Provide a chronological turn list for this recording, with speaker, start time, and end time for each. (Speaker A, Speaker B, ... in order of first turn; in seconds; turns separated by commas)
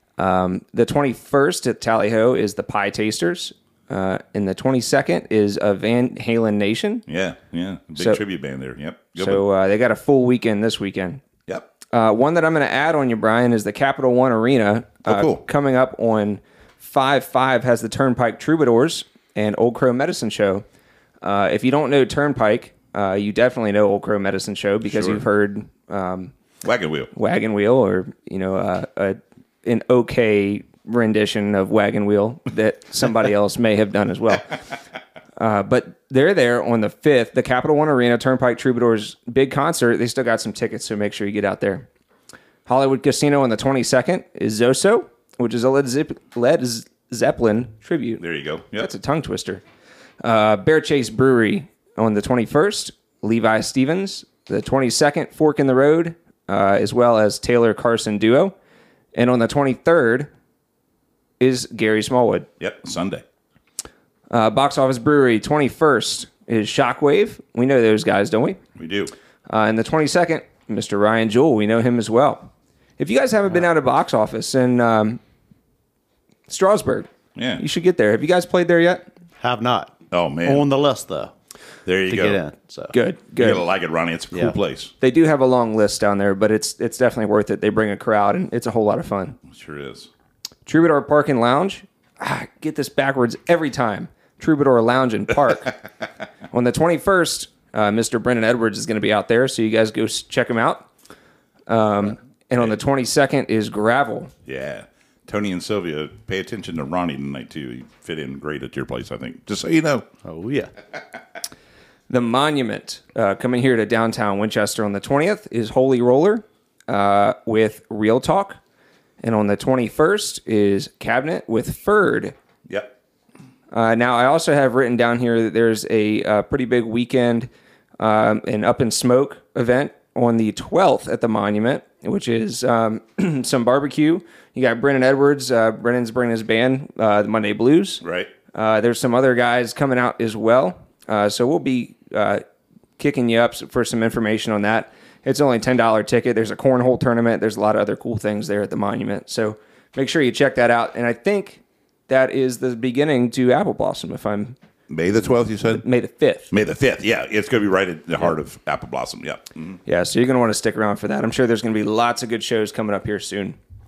Speaker A: 0.2-7.0, Speaker B: 7.1-9.4, Speaker A: 8.0-8.2, Speaker A: 9.2-11.2, Speaker A: 11.9-20.6, Speaker B: 15.1-15.4, Speaker A: 21.2-26.3, Speaker B: 24.9-25.2, Speaker B: 26.6-27.1, Speaker A: 27.1-34.6, Speaker A: 35.4-41.9, Speaker A: 42.7-48.2, Speaker B: 48.2-48.9, Speaker A: 48.8-49.6, Speaker A: 50.2-58.5, Speaker A: 59.1-60.3, Speaker A: 61.4-62.5, Speaker B: 62.6-63.2, Speaker A: 64.3-68.6, Speaker B: 68.8-69.1, Speaker A: 69.5-75.2, Speaker A: 76.5-79.1, Speaker B: 77.4-77.6, Speaker C: 79.4-81.3, Speaker B: 80.1-80.7, Speaker B: 81.9-82.4, Speaker C: 82.1-82.9, Speaker A: 82.9-83.6, Speaker B: 83.4-84.9, Speaker A: 85.0-89.4, Speaker B: 89.5-90.1, Speaker A: 90.7-95.8, Speaker A: 96.5-100.9, Speaker A: 101.7-104.3, Speaker B: 104.5-110.1, Speaker C: 110.2-110.7, Speaker A: 112.1-118.6, Speaker A: 119.2-122.3, Speaker A: 123.7-138.0, Speaker B: 138.0-138.3, Speaker A: 138.5-142.4, Speaker A: 143.0-154.6, Speaker B: 154.9-155.8, Speaker A: 155.7-156.5, Speaker B: 156.5-159.8, Speaker A: 159.9-163.6